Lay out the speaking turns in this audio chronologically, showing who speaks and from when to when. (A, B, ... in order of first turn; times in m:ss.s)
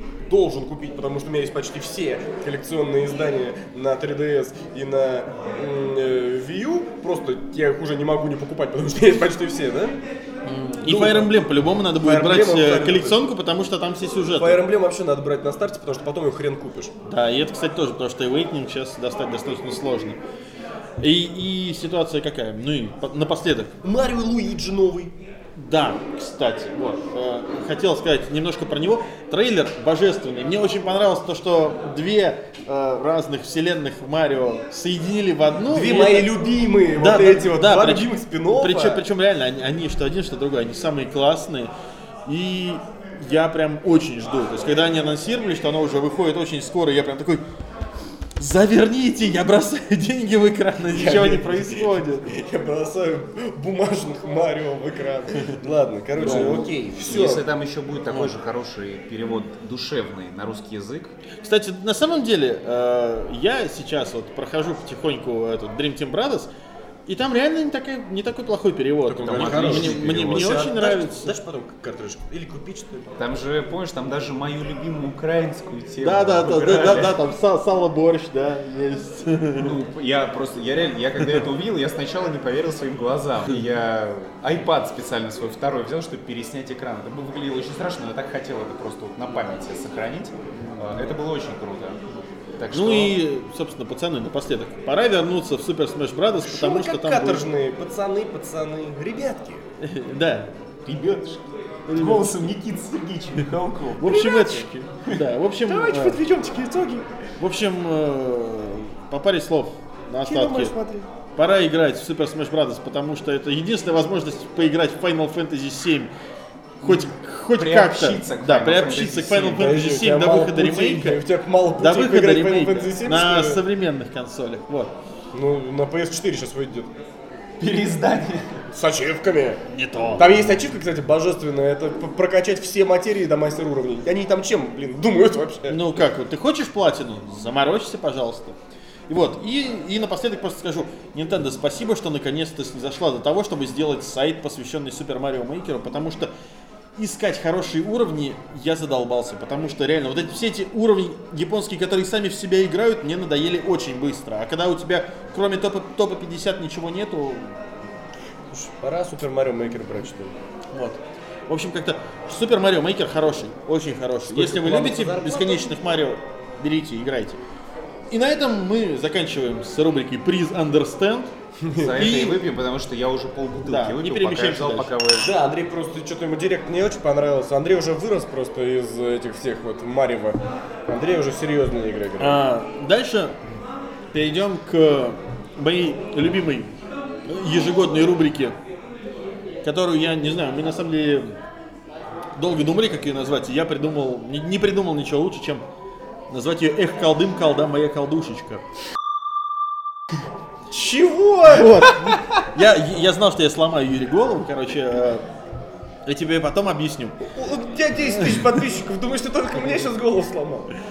0:00.3-0:10.0 A
0:10.4-0:14.6 B
0:10.8-0:11.3 A
0:12.0-0:13.2 A
0:14.4-0:16.9 A
0:17.0-0:20.2 B
0:21.0-0:23.8 B
0:23.8-0:25.1 A
0:25.6-0:36.4 B
0:35.7-0:39.0 A
0:37.0-0:41.7 B
0:42.2-0:47.4 B
0:48.4-0:52.3 B
0:50.9-0:57.4 A
0:56.2-0:56.7 B
0:56.2-1:01.1 C
1:01.4-1:06.5 B
1:07.0-1:11.3 B
1:09.1-1:13.2 A
1:09.2-1:10.7 C
1:13.2-1:17.2 C
1:16.0-1:19.8 B
1:19.6-1:32.0 C
1:32.6-1:33.2 C
1:32.7-1:37.4 B
1:36.4-1:39.6 A
1:39.8-1:40.5 B
1:40.8-1:44.1 C
1:41.9-1:42.3 B
1:44.0-1:46.2 B
1:44.0-1:44.7 A
1:45.7-1:47.0 A
1:47.4-1:50.7 B
1:50.2-1:51.1 A
1:51.4-1:56.1 B
1:56.8-2:01.2 B
1:56.8-1:59.8 C
1:59.6-2:03.6 A
2:01.8-2:04.9 B
2:05.3-2:06.9 A
2:07.6-2:08.6 C
2:08.7-2:09.6 A
2:09.7-2:10.3 B
2:10.2-2:16.0 A
2:15.7-2:18.6 B
2:19.1-2:26.3 B
2:27.0-2:37.6 B
2:38.5-2:40.3 A
2:40.7-2:47.4 B
2:44.3-2:45.7 A
2:48.1-2:51.3 B
2:51.6-2:51.9 A
2:51.7-2:55.3 C
2:51.9-2:52.4 B
2:53.6-2:54.9 B
2:55.1-3:02.4 A
3:02.2-3:03.4 B
3:04.1-3:06.7 B
3:07.2-3:08.6 B
3:09.6-3:11.4 B
3:12.4-3:15.6 B
3:16.3-3:18.6 B
3:20.7-3:21.8 A
3:21.4-3:25.2 B
3:26.0-3:27.2 B
3:27.3-3:30.7 A